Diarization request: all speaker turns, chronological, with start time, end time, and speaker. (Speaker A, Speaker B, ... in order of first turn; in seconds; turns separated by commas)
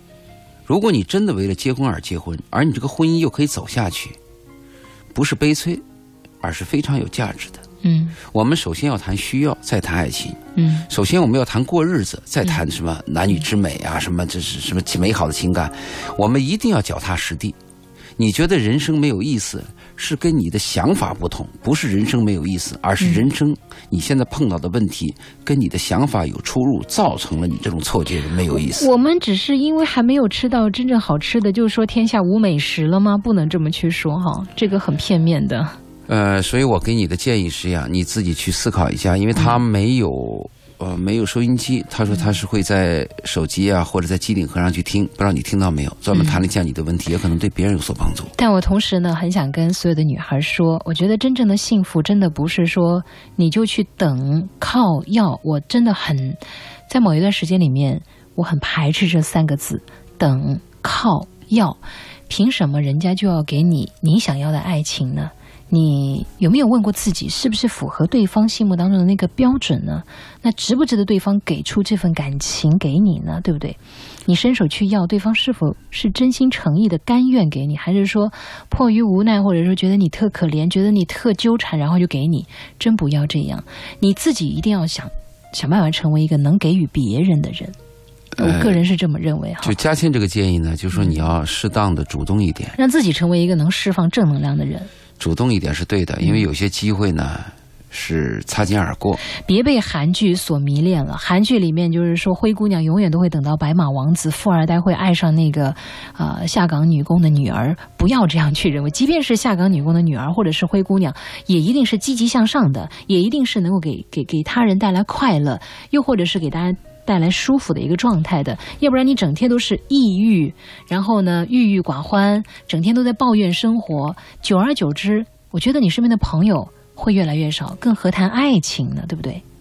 Speaker A: 0.7-4.2, Speaker A: 5.1-5.8, Speaker A: 6.4-7.6, Speaker B: 7.8-8.2, Speaker A: 8.3-17.6, Speaker B: 10.6-10.9, Speaker A: 18.2-28.9, Speaker B: 23.0-23.3, Speaker B: 28.5-35.8, Speaker A: 36.1-48.3, Speaker B: 39.4-39.6, Speaker B: 46.1-46.4, Speaker B: 48.4-87.7, Speaker A: 88.3-88.8, Speaker B: 88.4-89.8, Speaker A: 89.6-92.8, Speaker B: 90.9-91.2, Speaker B: 92.8-94.9, Speaker A: 95.2-99.2, Speaker B: 99.3-129.4